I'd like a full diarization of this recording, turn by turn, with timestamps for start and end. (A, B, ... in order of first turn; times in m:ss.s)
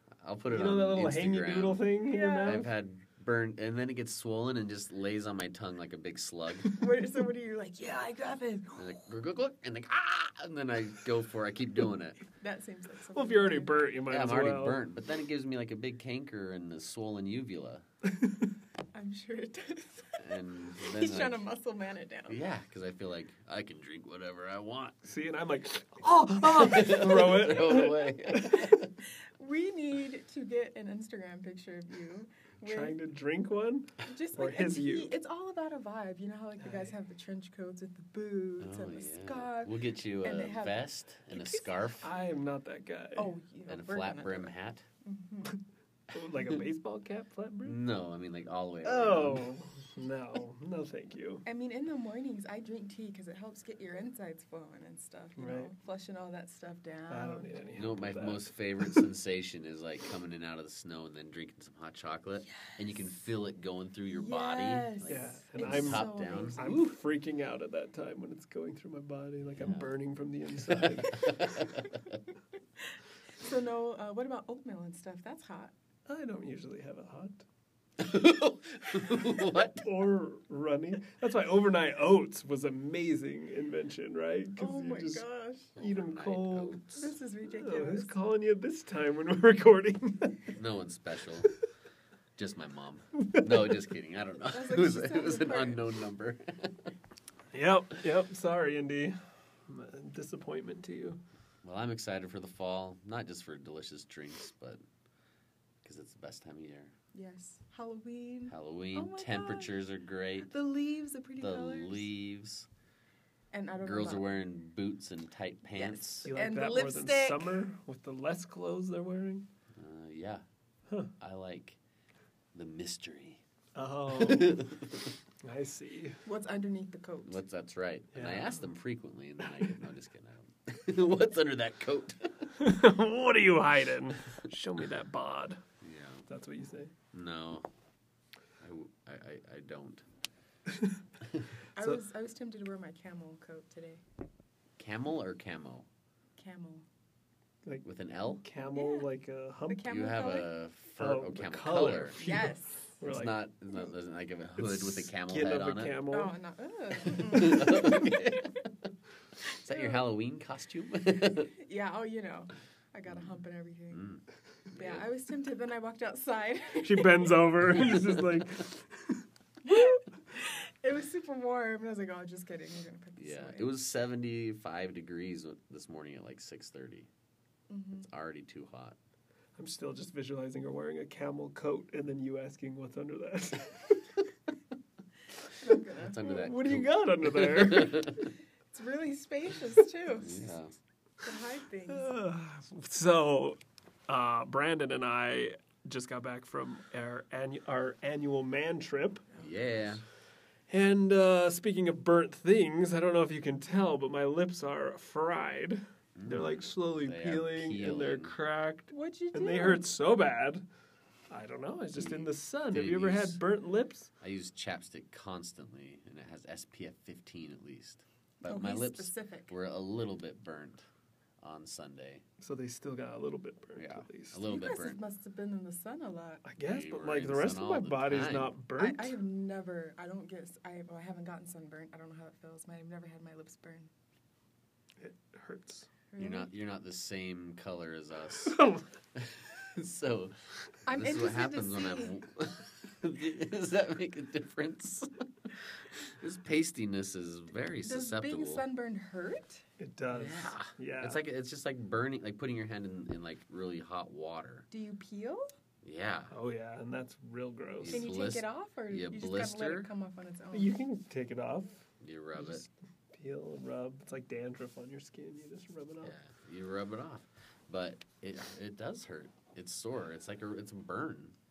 0:00.2-0:01.8 A
0:00.5-0:02.7 B
0:02.0-0:02.6 C
0:02.4-0:06.7 A
0:06.7-0:09.0 C
0:08.8-0:12.2 A
0:12.3-0:13.9 C
0:13.1-0:14.8 B
0:14.1-0:17.8 A
0:18.0-0:18.5 B
0:18.9-0:22.4 C
0:20.2-0:21.4 A
0:22.3-0:25.1 A
0:25.0-0:28.6 B
0:26.5-0:28.9 A
0:28.4-0:33.0 C
0:32.6-0:35.1 B
0:34.0-0:42.0 C
0:36.6-0:36.9 B
0:38.6-0:42.1 A
0:42.0-0:43.3 B
0:43.2-0:45.6 C
0:43.7-0:44.8 A
0:46.1-0:47.8 B
0:47.6-0:49.5 A
0:48.8-0:51.4 B
0:51.4-0:57.5 C
0:55.4-0:55.7 B
0:57.1-0:59.1 B
0:57.7-1:06.8 A
1:04.1-1:06.8 C
1:05.1-1:11.5 B
1:09.5-1:09.9 A
1:10.6-1:12.2 A
1:12.8-1:15.7 C
1:16.0-1:17.4 B
1:18.0-1:19.9 A
1:19.8-1:25.2 B
1:24.6-1:25.8 C
1:25.8-1:26.9 B
1:25.8-1:27.0 A
1:26.9-1:28.1 C
1:27.4-1:30.5 B
1:30.5-1:31.5 A
1:32.4-1:36.9 A
1:33.3-1:33.7 B
1:34.5-1:35.8 C
1:37.5-1:41.2 B
1:41.6-1:44.8 A
1:45.8-1:46.9 A
1:47.1-1:49.8 C
1:48.5-1:50.5 A
1:50.4-1:52.1 C
1:51.4-1:52.7 A
1:53.5-1:54.3 C
1:53.8-1:56.3 A
1:55.7-1:57.5 C
1:56.2-1:59.4 B
1:59.8-2:00.4 A
2:01.2-2:01.8 A
2:02.5-2:03.4 A
2:03.7-2:04.7 B
2:04.1-2:05.1 A
2:05.4-2:06.2 B
2:06.2-2:07.4 C
2:07.2-2:12.5 A
2:08.1-2:08.7 B
2:12.6-2:15.6 B
2:15.8-2:16.2 A
2:16.3-2:16.9 B
2:17.1-2:17.6 A
2:18.6-2:20.0 A
2:21.2-2:21.5 A
2:21.8-2:24.0 C
2:24.8-2:25.9 A
2:26.4-2:26.8 C
2:27.8-2:28.4 A
2:28.4-2:29.9 B
2:28.6-2:29.1 C
2:29.7-2:30.5 C
2:29.8-2:32.2 A
2:31.0-2:33.4 B
2:32.2-2:32.9 C
2:33.0-2:36.0 A
2:34.6-2:36.4 B
2:36.1-2:38.6 C
2:37.3-2:38.5 A
2:37.3-2:37.8 B
2:39.4-2:40.0 C
2:39.6-2:41.5 A
2:41.4-2:44.1 C
2:43.1-2:43.3 A
2:43.9-2:45.0 A
2:44.7-2:47.4 C
2:46.8-2:49.2 B
2:47.8-2:48.2 A
2:49.6-2:53.7 C
2:53.2-2:57.1 A
2:57.7-2:58.1 C
2:58.0-2:59.0 A
2:59.6-3:04.0 B
3:05.5-3:06.4 C
3:05.9-3:08.3 A
3:06.3-3:08.1 B
3:08.7-3:10.5 C
3:10.2-3:10.7 A
3:11.2-3:12.1 C
3:11.9-3:19.3 B
3:19.4-3:20.0 A
3:20.7-3:30.6 B
3:26.2-3:28.4 A
3:28.9-3:29.8 C
3:31.3-3:34.1 B
3:32.0-3:33.4 A
3:34.2-3:40.8 A
3:38.4-3:39.5 C
3:41.4-3:42.2 A
3:42.4-3:44.4 B
3:43.8-3:45.0 A
3:44.4-3:46.4 C
3:46.4-3:49.2 B
3:46.6-3:48.5 A
3:48.8-3:53.9 C
3:55.0-3:55.9 B
3:56.1-3:56.5 C
3:56.2-3:58.6 A
3:58.4-3:58.8 B
3:59.1-4:00.3 A
4:00.8-4:02.2 C
4:00.9-4:08.6 A
4:07.8-4:09.6 C
4:09.8-4:11.2 B
4:10.1-4:14.7 A
4:14.7-4:15.5 C
4:15.8-4:16.3 A
4:16.3-4:18.1 B
4:17.8-4:19.9 A
4:17.9-4:20.7 C
4:20.5-4:26.1 B
4:22.0-4:22.6 A
4:26.0-4:31.3 A